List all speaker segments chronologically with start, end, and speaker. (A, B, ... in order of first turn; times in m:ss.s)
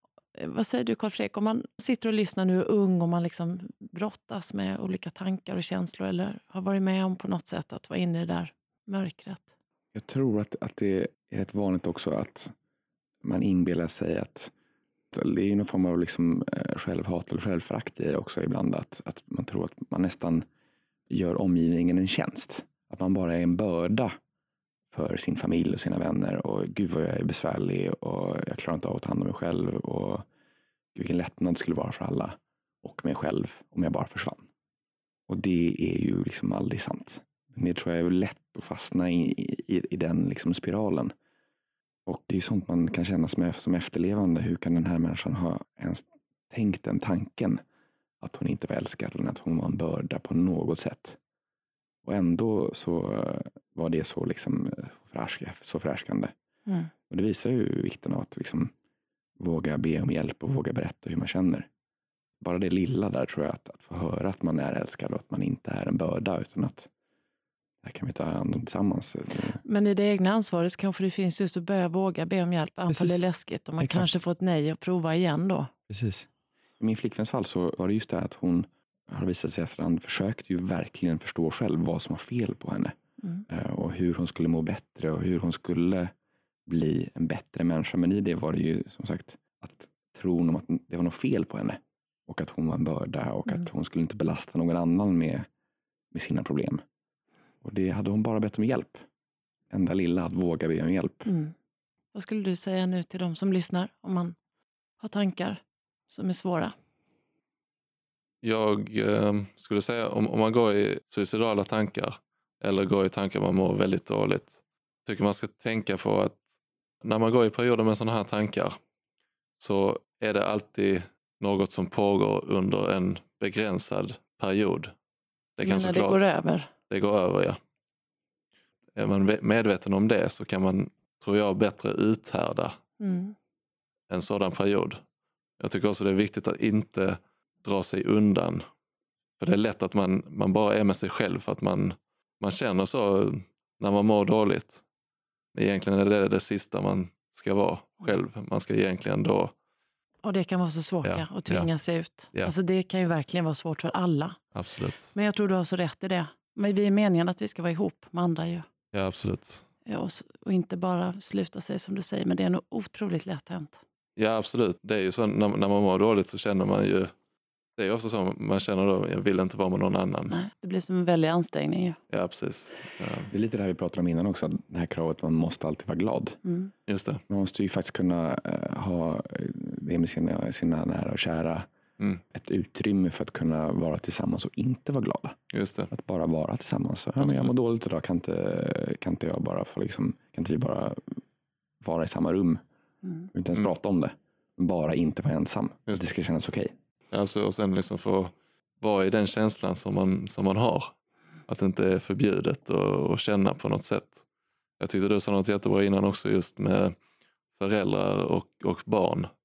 0:00.3-0:09.5 A
0:09.9-0:12.5 B
0:13.2-0:14.5 B
0:15.1-0:20.4 B
0:21.1-0:24.1 B
0:24.9-0:30.2 B
0:30.9-0:34.5 B
0:35.3-0:41.1 B
0:42.0-0:47.6 B
0:48.2-0:51.2 B
0:52.0-0:56.3 B
0:57.1-0:58.7 B
0:59.4-1:01.7 B
1:02.4-1:06.9 B
1:07.8-1:09.6 B
1:09.6-1:15.7 A
1:12.9-1:13.2 B
1:13.8-1:14.2 B
1:15.9-1:16.3 B
1:16.8-1:22.9 B
1:23.5-1:26.1 B
1:26.6-1:35.5 B
1:36.1-1:36.8 B
1:37.6-1:39.0 B
1:39.7-1:41.3 B
1:41.2-1:41.5 A
1:42.1-1:44.4 A
1:45.0-1:46.7 A
1:48.4-1:56.5 C
1:57.0-1:58.8 C
1:59.6-2:04.9 C
2:05.6-2:06.2 C
2:05.6-2:06.7 A
2:06.9-2:07.6 C
2:09.0-2:12.8 C
2:13.0-2:13.3 A
2:14.1-2:15.0 C
2:15.6-2:18.6 C
2:19.4-2:24.8 C
2:25.5-2:29.5 C
2:30.2-2:34.4 A
2:31.0-2:31.7 C
2:34.5-2:35.1 C
2:35.1-2:38.7 A
2:38.9-2:39.7 C
2:39.8-2:43.8 A
2:44.2-2:47.1 C
2:47.8-2:50.4 C
2:50.3-2:52.0 A
2:52.1-2:53.3 C
2:53.3-2:56.4 B
2:56.4-2:56.7 A
2:56.9-2:57.2 C
2:57.3-3:01.7 B
3:02.3-3:05.4 B
3:05.5-3:05.9 C
3:05.9-3:11.2 B
3:07.2-3:07.6 C
3:11.8-3:12.6 B
3:13.3-3:16.7 B
3:17.1-3:20.9 C
3:21.5-3:24.2 C
3:24.8-3:26.9 C
3:27.6-3:29.3 C